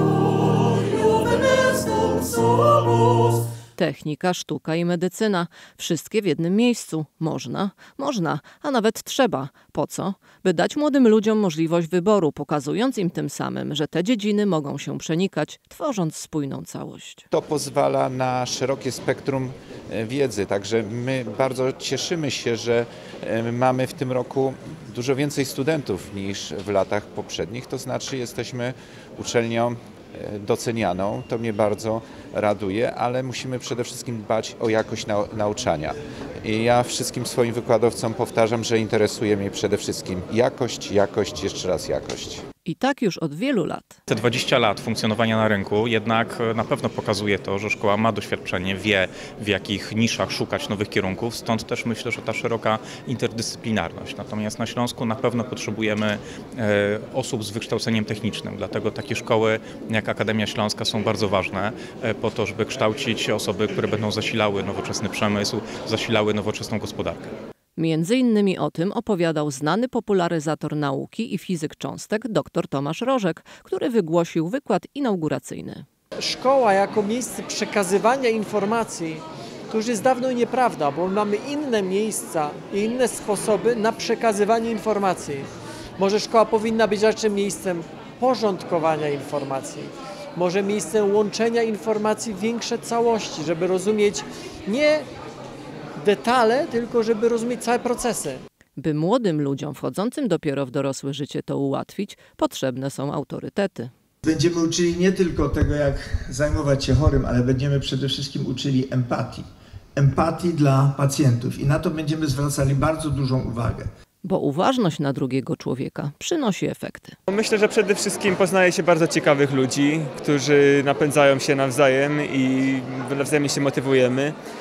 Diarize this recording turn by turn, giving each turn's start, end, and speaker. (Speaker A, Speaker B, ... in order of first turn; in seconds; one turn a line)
Speaker A: 1.8-2.2
Speaker A: 3.8-17.3
Speaker B: 17.3-42.4
Speaker A: 42.6-44.0
Speaker C: 44.1-67.3
Speaker A: 67.8-75.9
Speaker D: 76.2-95.1
Speaker D: 96.0-98.4
Speaker A: 98.8-103.9
Speaker E: 104.2-109.5
Speaker E: 110.0-113.9
Speaker A: 114.2-117.2
Speaker F: 117.3-124.3